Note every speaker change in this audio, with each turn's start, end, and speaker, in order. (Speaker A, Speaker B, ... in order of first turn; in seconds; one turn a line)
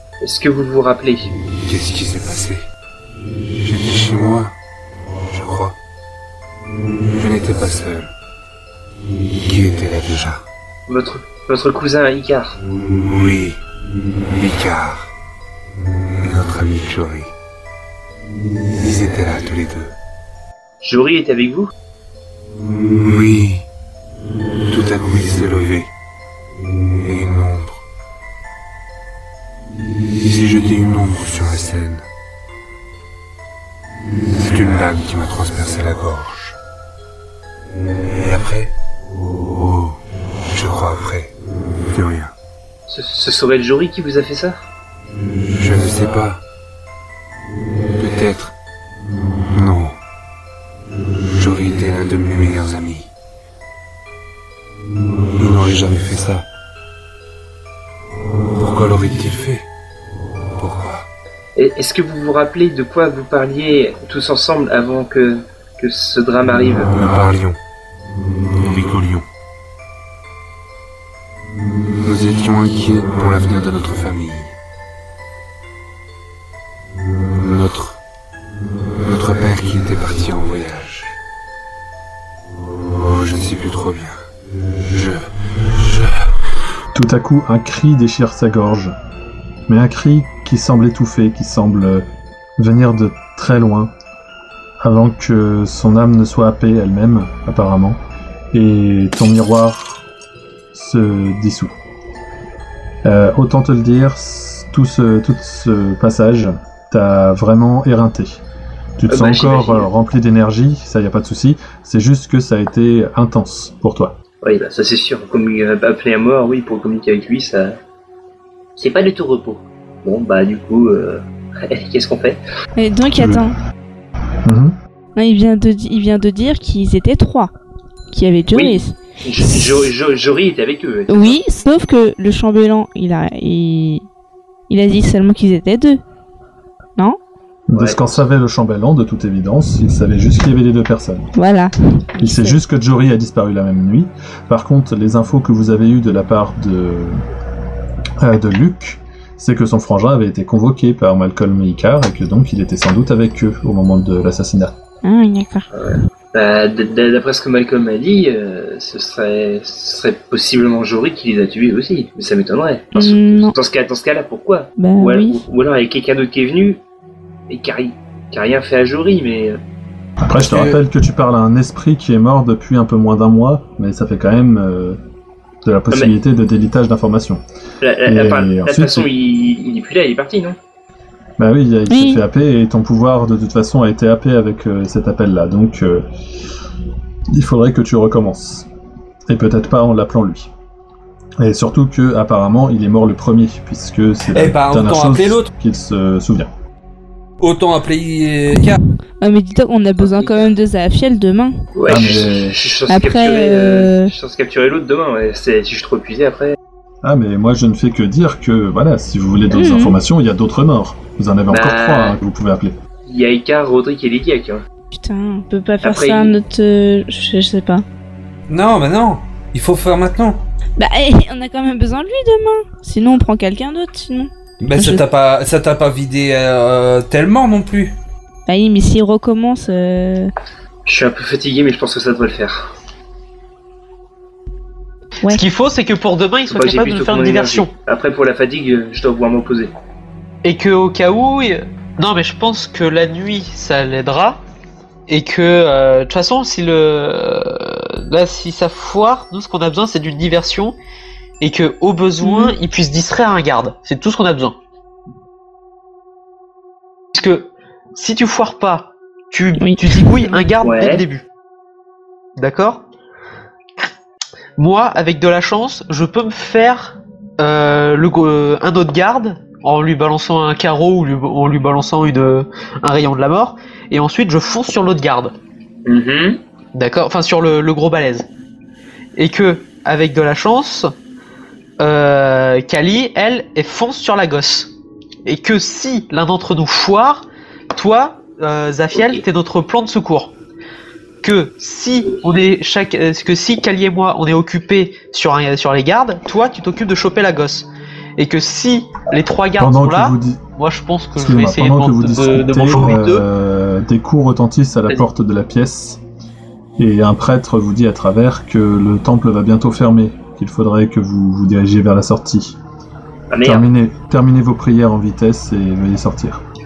Speaker A: 0.2-1.3
Speaker B: 1.6-2.7
Speaker B: 3.6-4.5
Speaker B: 5.2-5.8
Speaker B: 7.1-8.1
Speaker B: 9.3-10.4
Speaker A: 10.9-12.6
Speaker B: 12.9-13.6
Speaker B: 14.1-15.1
Speaker B: 16.2-17.3
Speaker B: 18.7-19.9
Speaker A: 20.8-21.7
Speaker B: 22.9-23.6
Speaker B: 24.7-25.9
Speaker B: 26.8-27.8
Speaker B: 30.0-32.0
Speaker B: 34.3-36.6
Speaker B: 38.0-38.7
Speaker B: 39.4-40.0
Speaker B: 40.5-42.3
Speaker A: 42.9-44.6
Speaker B: 45.5-46.4
Speaker B: 47.9-48.5
Speaker B: 49.5-50.0
Speaker B: 51.3-53.1
Speaker B: 55.4-56.5
Speaker B: 58.5-59.7
Speaker B: 60.5-61.0
Speaker A: 61.6-66.9
Speaker B: 66.9-67.6
Speaker B: 68.6-69.2
Speaker B: 71.9-74.5
Speaker B: 77.3-78.0
Speaker B: 78.7-81.2
Speaker B: 82.9-86.3
Speaker C: 86.9-89.0
Speaker C: 89.7-92.0
Speaker C: 92.6-93.9
Speaker C: 94.8-98.0
Speaker C: 98.5-100.0
Speaker C: 100.7-101.7
Speaker C: 103.0-108.4
Speaker C: 109.0-114.2
Speaker A: 109.1-109.9
Speaker A: 114.4-117.8
Speaker A: 118.8-122.4
Speaker D: 122.8-123.5
Speaker C: 123.2-123.4
Speaker C: 124.4-124.8
Speaker D: 125.2-127.5
Speaker D: 128.1-129.8
Speaker A: 128.5-131.4
Speaker D: 131.1-134.1
Speaker D: 134.7-136.0
Speaker C: 137.7-141.3
Speaker A: 137.8-138.2
Speaker D: 141.3-142.6
Speaker C: 142.2-147.2
Speaker C: 148.2-154.8
Speaker D: 155.0-155.7
Speaker A: 155.7-166.8
Speaker D: 162.9-163.6
Speaker D: 164.8-165.4
Speaker A: 167.5-169.6
Speaker C: 170.2-175.0
Speaker C: 175.6-177.4
Speaker A: 177.8-180.6
Speaker C: 178.1-179.1
Speaker C: 181.4-186.1
Speaker D: 181.9-182.2
Speaker C: 187.3-188.7
Speaker C: 189.3-190.5
Speaker C: 191.4-196.5
Speaker E: 194.3-195.5
Speaker E: 197.4-198.8
Speaker D: 199.2-201.6
Speaker A: 200.0-200.5
Speaker A: 201.8-206.6
Speaker C: 201.9-202.8
Speaker D: 202.9-204.1
Speaker C: 207.0-212.8
Speaker D: 209.5-210.0
Speaker A: 211.5-212.2
Speaker A: 213.1-214.6
Speaker D: 214.9-217.8
Speaker A: 215.8-216.4
Speaker E: 218.5-220.4
Speaker D: 220.8-225.1
Speaker E: 224.6-228.0
Speaker D: 228.5-230.3
Speaker A: 230.9-232.7
Speaker F: 235.3-237.7
Speaker A: 236.5-239.7
Speaker F: 240.4-244.4
Speaker F: 245.1-250.8
Speaker F: 251.4-254.6
Speaker D: 252.2-252.5
Speaker F: 257.1-261.2
Speaker D: 259.6-260.5
Speaker A: 260.6-261.1
Speaker F: 262.4-262.8
Speaker F: 264.6-275.4
Speaker A: 275.9-276.4
Speaker F: 276.7-278.3
Speaker F: 279.2-280.9
Speaker F: 281.8-284.7
Speaker F: 285.2-290.3
Speaker A: 288.9-289.2
Speaker F: 291.2-303.2
Speaker C: 299.6-300.4
Speaker C: 301.1-306.0
Speaker C: 306.8-312.6
Speaker A: 313.3-313.7
Speaker C: 313.4-316.4